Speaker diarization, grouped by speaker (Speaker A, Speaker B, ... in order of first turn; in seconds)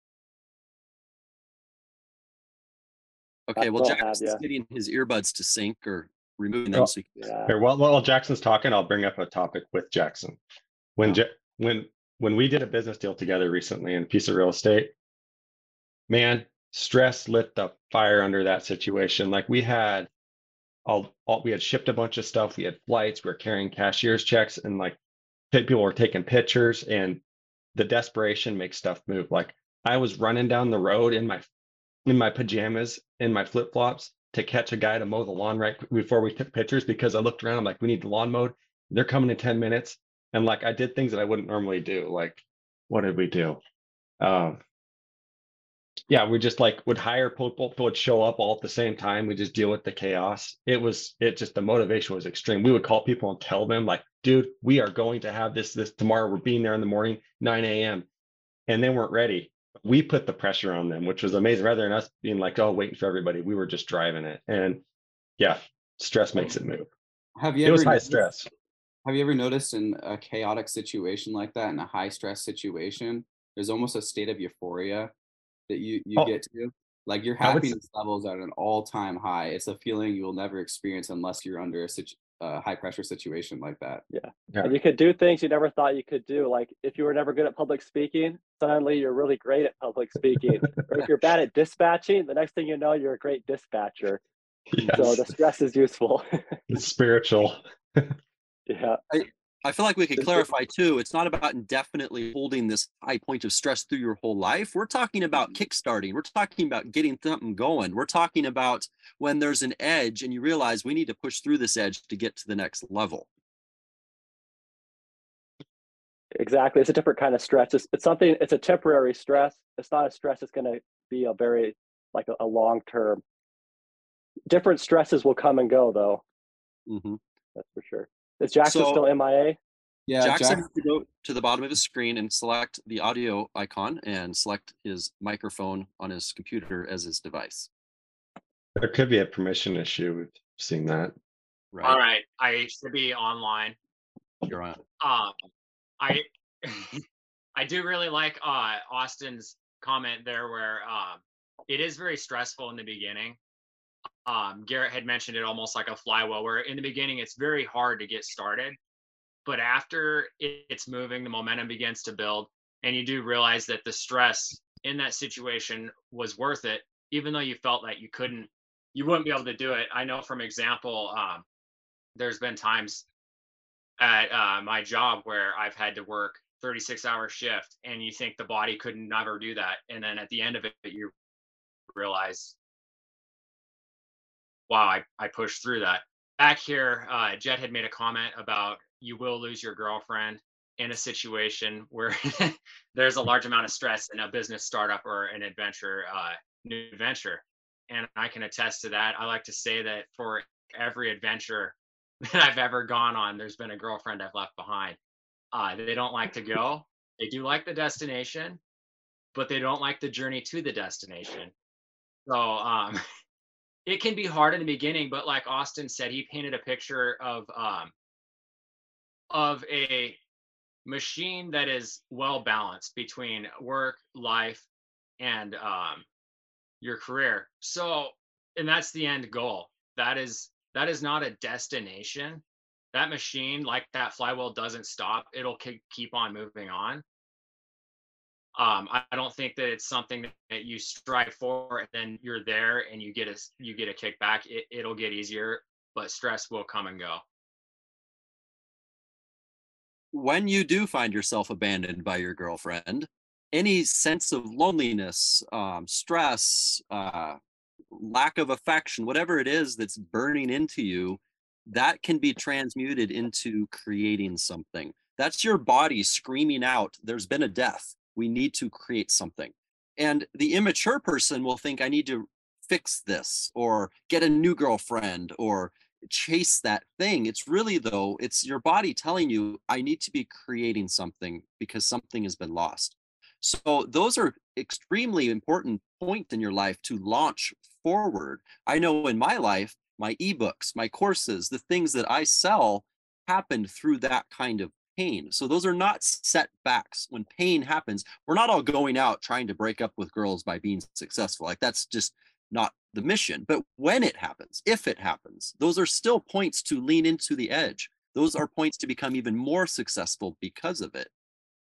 Speaker A: 3.5-7.3, 99.1-113.3, 126.9-127.2, 128.6-129.0, 130.2-137.7, 141.7-142.0, 144.5-144.8, 250.1-257.4, 257.9-311.1
Speaker B: 3.5-4.4, 7.2-7.5, 84.1-94.2, 94.9-96.6, 98.7-99.0, 116.4-123.2, 124.5-126.2, 127.5-129.6
Speaker C: 7.5-10.4, 11.0-14.9, 16.1-20.1, 20.9-25.0, 25.5-27.2, 27.7-31.4, 32.1-43.6, 44.2-44.6, 46.1-58.1, 58.7-64.8, 65.4-66.9, 67.6-68.5, 77.4-77.8, 94.7-95.3, 96.7-98.2, 138.8-141.1
Speaker D: 67.4-68.3, 69.0-75.1, 75.7-84.0, 130.1-130.6
Speaker E: 141.8-143.8, 145.0-145.3, 146.0-147.0, 147.5-153.4, 154.2-158.8, 159.4-171.4, 172.1-173.0, 174.0-181.1, 181.9-182.6, 184.7-205.0, 205.5-208.6, 209.3-211.5, 212.2-213.0, 213.9-217.9, 219.3-220.2, 220.8-224.7, 225.2-226.0, 226.8-237.0, 238.6-247.2